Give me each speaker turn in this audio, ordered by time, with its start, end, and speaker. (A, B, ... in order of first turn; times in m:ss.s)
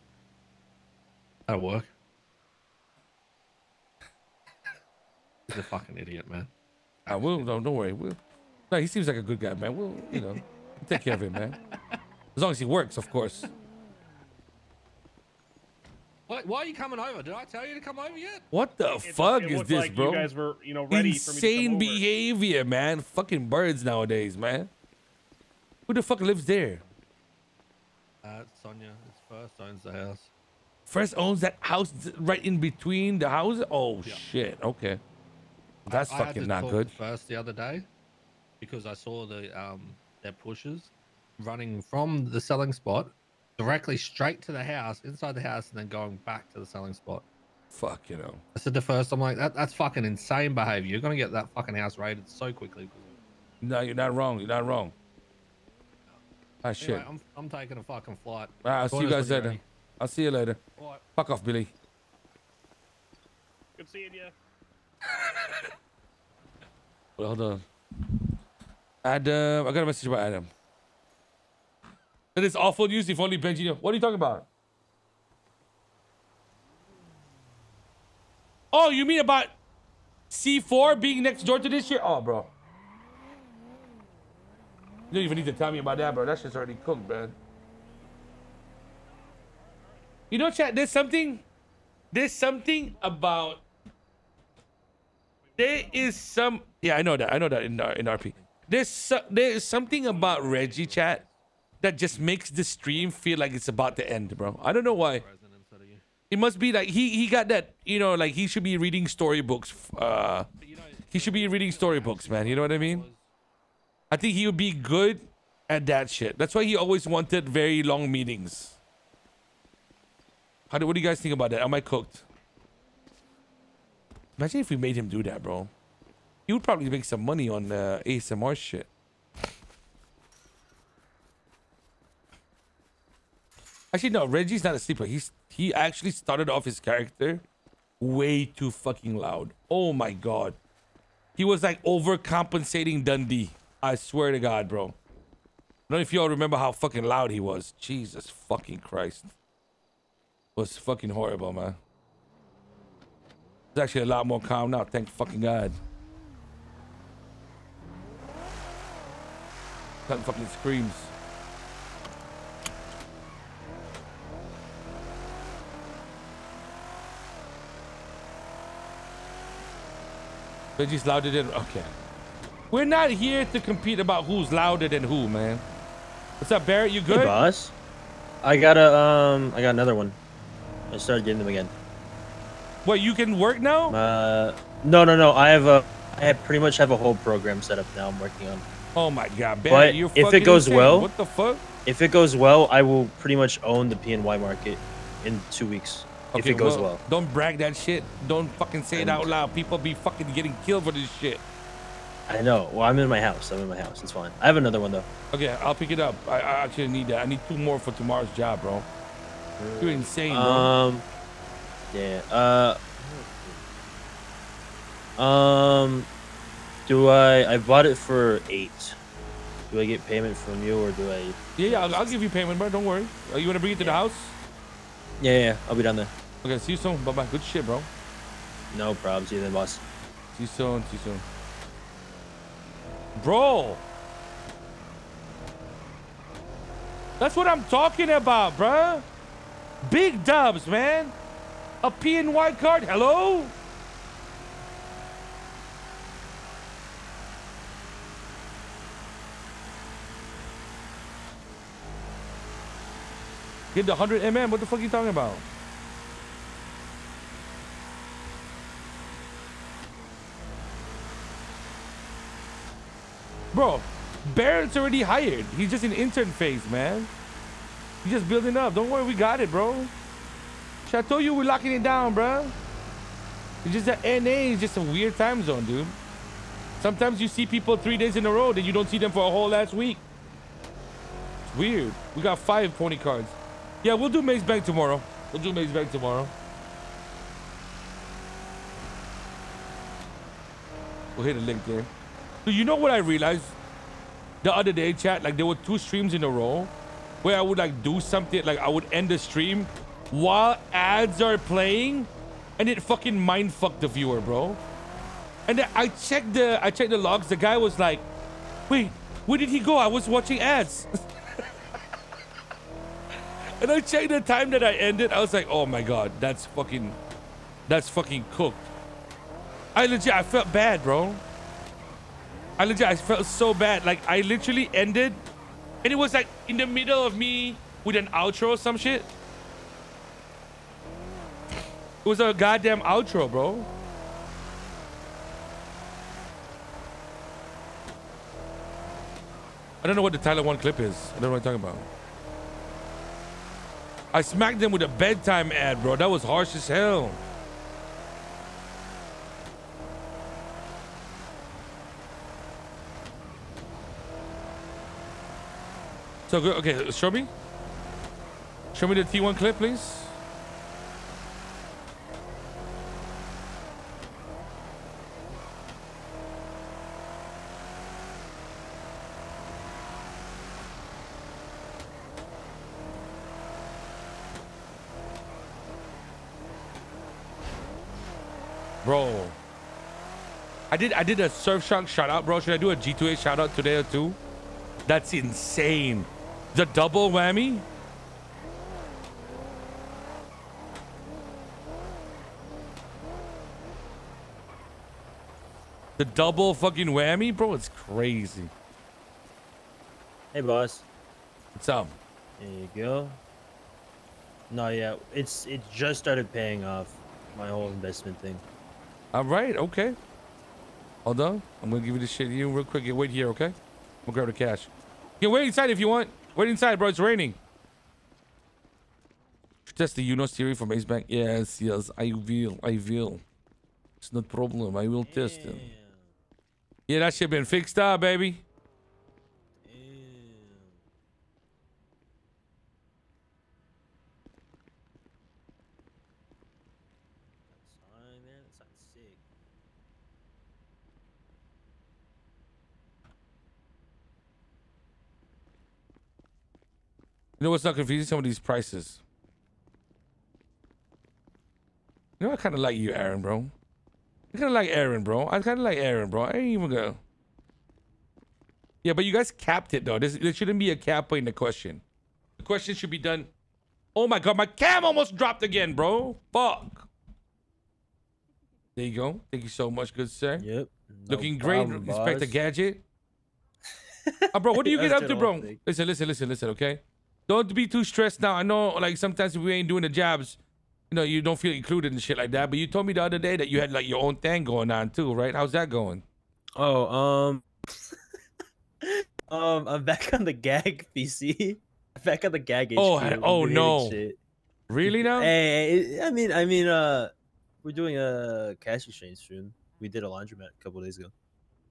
0:01.5-0:01.9 A
0:05.5-0:06.5 A
0:07.0-0:07.5 A
0:07.1-0:08.2 B
0:08.7-0:11.6 B
0:10.1-0:10.4 A
0:12.3-0:13.5 B
0:16.3-0:18.4 A
0:18.5-0:20.3 B
0:19.0-0:22.0 C
0:20.9-0:24.7 B
0:25.9-0:26.8 B
0:28.2-0:30.3 A
0:30.9-0:35.0 B
0:35.8-0:37.9 A
0:35.9-0:36.9 B
0:38.6-0:47.2 A
0:47.7-0:48.4 B
0:48.5-0:53.1 A
0:53.6-0:54.9 B
0:56.6-0:57.1 B
0:56.8-0:59.6 A
0:58.6-1:00.6 B
1:00.8-1:01.0 A
1:01.2-1:01.7 B
1:03.8-1:04.3 C
1:07.2-1:07.6 B
1:09.0-1:10.5 B
1:12.3-1:14.4 B
1:18.7-1:19.5 B
1:20.3-1:22.5 B
1:25.1-1:27.3 B
1:30.3-1:31.4 B
1:32.1-1:33.6 B
1:35.6-1:41.2 B
1:38.2-1:38.5 A
1:40.0-1:41.4 A
1:41.8-1:45.2 B
1:43.9-1:46.0 A
1:46.3-1:50.5 B
1:50.6-1:53.3 A
1:51.1-1:53.1 B
1:54.1-1:58.8 B
2:00.7-2:02.2 B
2:04.4-2:05.7 B
2:06.5-2:08.9 B
2:13.9-2:17.4 B
2:18.0-2:20.6 B
2:21.4-2:24.9 B
2:25.9-2:29.3 B
2:30.6-2:31.8 B
2:33.7-2:35.8 B
2:40.1-2:41.1 B
2:50.8-2:51.9 B
2:52.7-2:55.6 B
2:56.4-2:57.4 B
2:57.1-2:57.7 D
2:58.4-3:00.2 D
3:00.9-3:01.7 D
3:02.8-3:04.0 B
3:03.9-3:08.6 D
3:08.9-3:11.6 B
3:09.7-3:11.1 D
3:11.8-3:17.0 D
3:16.3-3:21.4 B
3:18.9-3:19.3 D
3:22.3-3:25.1 D
3:25.3-3:28.9 B
3:29.6-3:31.0 D
3:29.8-3:30.7 B
3:31.9-3:33.6 D
3:35.2-3:36.1 D
3:36.8-3:39.0 D
3:39.7-3:42.1 D
3:41.6-3:44.4 B
3:43.7-3:44.0 D
3:45.2-3:46.1 D
3:46.4-3:47.9 B
3:48.7-3:49.8 D
3:50.3-3:51.2 B
3:53.1-3:53.8 B
3:57.2-3:59.0 B
3:59.8-4:01.1 B
4:01.8-4:03.5 B
4:13.7-4:15.4 B
4:23.5-4:27.1 B
4:28.0-4:29.9 B
4:30.8-4:32.5 B
4:33.6-4:36.0 B
4:36.8-4:40.0 B
4:41.5-4:46.3 B
4:51.2-4:51.9 B
4:52.4-4:53.6 B
4:54.4-5:04.6 B
5:05.5-5:08.0 B
5:08.7-5:10.9 B
5:13.6-5:17.0 B
5:17.7-5:18.7 B
5:19.7-5:21.2 B
5:22.6-5:25.2 B
5:25.8-5:29.1 B
5:32.0-5:33.7 B
5:39.8-5:41.8 B
5:44.1-5:47.2 B
5:56.3-5:57.3 B
5:58.7-6:00.1 B
6:18.8-6:19.4 B
6:20.7-6:24.2 B
6:24.8-6:27.6 B
6:36.0-6:38.5 B
6:40.3-6:40.8 D
6:41.5-6:41.9 B
6:42.4-6:43.2 D
6:44.5-6:48.4 D
6:49.1-6:50.0 B
6:51.0-6:57.4 B
6:59.7-7:03.2 B
7:04.0-7:05.7 B
7:05.0-7:06.1 D
7:06.9-7:08.4 B
7:09.6-7:10.8 D
7:17.5-7:19.2 D
7:27.4-7:29.0 B
7:32.2-7:33.5 B
7:34.3-7:37.0 B
7:38.8-7:41.8 B
7:42.4-7:43.3 B
7:43.9-7:46.9 B
7:48.7-7:50.4 B
7:50.4-7:52.4 D
7:51.1-7:52.8 B
7:54.0-7:55.6 D
7:54.3-8:00.4 B
8:00.9-8:06.0 B
8:06.6-8:07.4 D
8:08.8-8:14.2 D
8:12.8-8:14.0 B
8:14.7-8:15.3 B
8:14.8-8:17.1 D
8:17.6-8:21.1 D